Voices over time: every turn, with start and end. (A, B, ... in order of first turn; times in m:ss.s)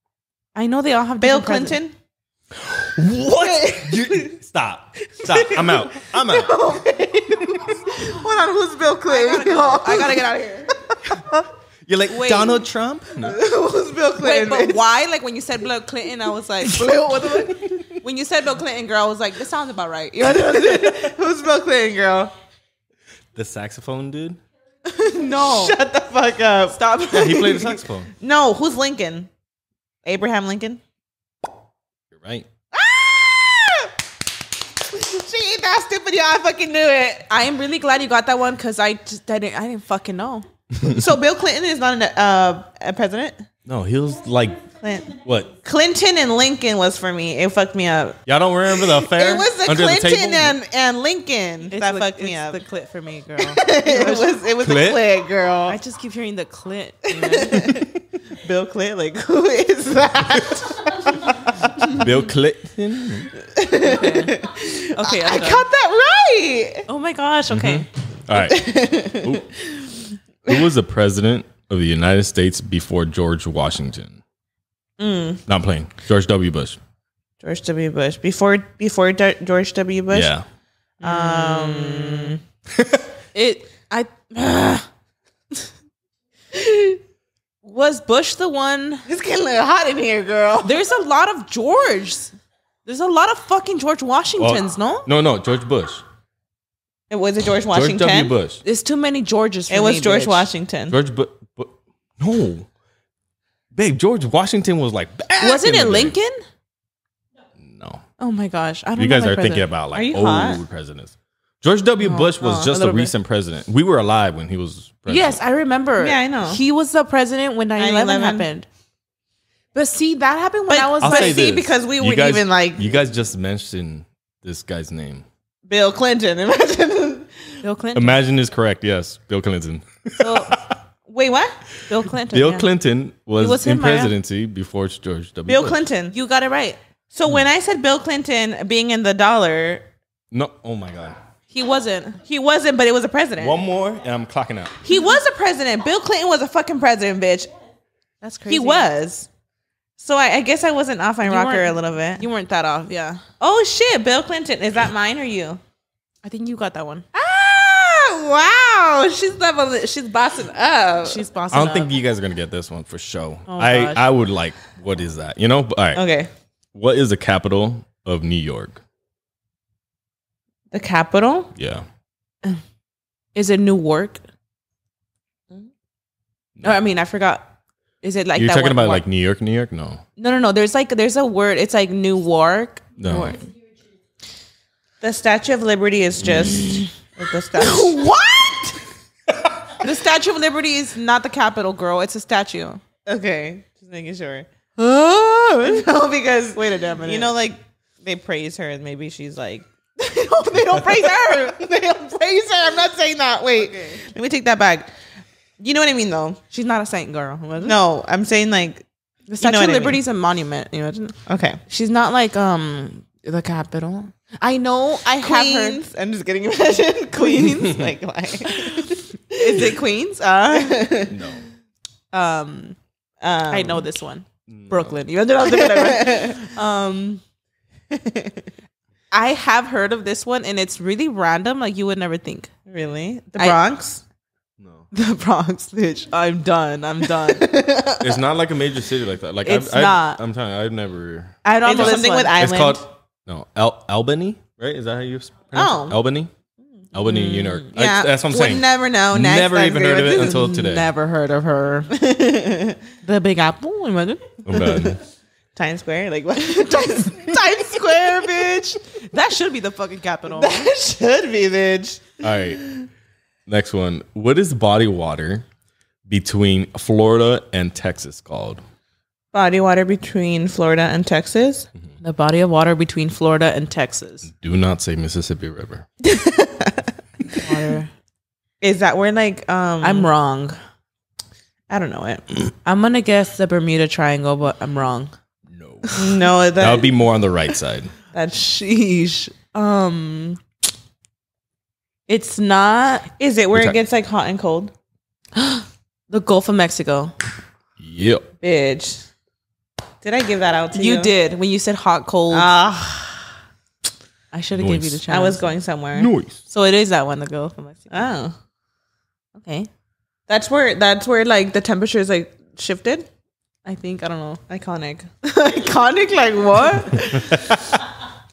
0:00.5-0:01.8 A
0:01.2-0:01.9 B
0:02.5-0:06.6 C
0:03.2-0:04.3 B
0:05.1-0:10.3 B
0:09.0-0:10.7 A
0:10.8-0:11.4 B
0:11.8-0:13.4 C
0:12.1-0:12.6 A
0:13.2-0:14.8 B
0:14.2-0:21.1 A
0:16.8-0:17.5 B
0:20.2-0:22.3 B
0:23.3-0:24.4 C
0:24.8-0:25.8 A
0:25.2-0:29.3 B
0:26.7-0:27.6 A
0:27.1-0:28.1 C
0:30.0-0:30.8 B
0:32.1-0:32.4 C
0:32.7-0:33.9 B
0:34.8-0:37.3 B
0:37.3-0:40.4 A
0:40.8-0:43.4 B
0:43.6-0:44.6 C
0:44.8-0:45.1 B
0:45.2-0:45.5 C
0:45.6-0:48.2 B
0:48.3-0:50.6 C
0:48.7-0:52.6 B
0:51.7-0:54.4 A
0:53.4-0:55.8 B
0:54.6-0:55.0 C
0:55.7-0:57.8 A
0:57.1-1:02.0 B
1:01.9-1:03.3 C
1:03.4-1:06.8 B
1:03.8-1:04.4 A
1:04.9-1:05.6 A
1:06.9-1:07.9 A
1:07.5-1:09.5 C
1:08.4-1:10.0 B
1:10.4-1:14.2 C
1:15.0-1:15.4 B
1:15.5-1:16.8 C
1:17.4-1:20.3 B
1:20.1-1:20.4 C
1:21.0-1:22.4 A
1:21.0-1:22.4 B
1:22.7-1:23.0 C
1:23.3-1:24.9 A
1:26.5-1:27.0 A
1:27.6-1:29.0 A
1:29.0-1:30.8 B
1:30.6-1:32.3 A
1:32.8-1:35.1 A
1:34.4-1:36.0 C
1:37.1-1:38.3 B
1:37.7-1:38.6 C
1:38.6-1:40.5 A
1:39.7-1:41.0 B
1:40.9-1:42.7 C
1:43.7-1:46.2 C
1:45.4-1:46.4 A
1:47.6-1:48.0 C
1:48.2-1:49.6 A
1:49.0-1:55.4 C
1:49.9-1:50.6 B
1:52.0-1:53.1 A
1:55.1-1:58.7 A
1:56.0-1:56.6 B
1:57.8-1:58.5 B
1:59.7-2:01.4 A
2:00.7-2:02.9 B
2:01.0-2:05.2 C
2:05.7-2:07.3 B
2:07.6-2:08.2 A
2:07.9-2:10.8 C
2:10.2-2:11.6 B
2:11.9-2:12.7 A
2:12.3-2:15.8 C
2:13.4-2:14.1 A
2:15.5-2:16.1 B
2:16.1-2:16.8 A
2:17.1-2:19.8 B
2:20.3-2:21.2 C
2:21.5-2:22.2 A
2:22.2-2:23.6 B
2:23.4-2:24.8 C
2:24.8-2:27.5 B
2:28.2-2:28.9 A
2:28.5-2:29.3 B
2:30.0-2:32.2 B
2:31.2-2:33.2 A
2:33.4-2:35.6 B
2:36.2-2:37.1 A
2:37.1-2:41.2 B
2:40.4-2:41.9 A
2:41.5-2:46.0 C
2:43.5-2:44.0 A
2:45.9-2:46.3 B
2:46.7-2:48.8 C
2:50.7-2:51.5 B
2:51.5-2:51.8 C
2:53.3-2:54.2 A
2:56.6-2:59.0 A
2:58.3-3:00.0 C
3:00.2-3:03.4 A
3:03.0-3:03.4 C
3:05.0-3:08.0 B
3:06.2-3:06.8 C
3:07.6-3:08.8 A
3:09.8-3:12.8 A
3:13.1-3:14.5 B
3:14.8-3:15.8 A
3:15.6-3:19.6 B
3:16.5-3:17.3 A
3:20.0-3:21.7 A
3:20.9-3:24.9 B
3:23.6-3:24.0 A
3:25.6-3:26.4 B
3:26.5-3:27.8 A
3:27.6-3:28.8 B
3:29.3-3:35.8 A
3:29.4-3:30.0 B
3:31.3-3:31.6 B
3:35.2-3:39.7 B
3:37.1-3:37.9 A
3:38.4-3:40.8 A
3:40.5-3:41.2 B
3:41.1-3:41.4 C
3:42.1-3:42.8 A
3:43.2-3:43.9 B
3:43.5-3:47.2 A
3:44.5-3:45.0 C
3:45.4-3:46.5 B
3:47.9-3:48.4 B
3:49.1-3:52.5 A
3:52.7-3:54.0 B
3:54.9-3:57.5 A
3:57.3-3:58.1 B
3:58.0-4:06.3 C
3:59.4-4:00.2 A
4:01.4-4:02.4 A
4:01.6-4:02.8 B
4:05.5-4:06.0 B
4:06.9-4:10.9 C
4:07.0-4:07.7 A
4:07.7-4:10.5 B
4:10.2-4:11.9 A
4:11.9-4:12.8 B
4:13.0-4:14.4 A
4:14.4-4:15.0 C
4:14.5-4:14.9 B
4:15.5-4:18.6 B
4:16.5-4:20.7 A
4:20.3-4:22.8 B
4:22.2-4:22.6 C
4:23.5-4:25.4 C
4:26.1-4:28.6 C
4:29.3-4:31.7 B
4:32.0-4:34.3 A
4:34.2-4:35.9 C
4:36.4-4:36.8 B
4:37.3-4:37.9 A
4:38.6-4:40.1 B
4:39.8-4:40.6 A
4:41.7-4:42.2 B
4:42.6-4:45.1 A
4:45.5-4:46.0 C
4:46.0-4:46.9 B
4:46.6-4:47.9 C
4:48.1-4:48.4 B
4:48.3-4:50.4 A
4:52.1-4:53.1 A
4:53.2-4:54.7 B
4:55.4-4:57.1 A
4:57.8-4:58.2 C
4:58.4-4:59.1 B
5:00.0-5:01.1 B
5:00.7-5:02.5 A
5:02.3-5:03.3 B
5:04.3-5:05.5 A
5:04.6-5:05.0 C
5:05.1-5:06.1 B
5:05.9-5:06.4 C
5:06.5-5:08.1 A
5:07.9-5:08.3 B
5:09.4-5:09.7 A
5:10.3-5:13.1 B
5:13.6-5:14.4 A
5:14.5-5:15.1 B
5:15.2-5:17.5 A
5:16.5-5:17.2 B
5:17.2-5:17.7 C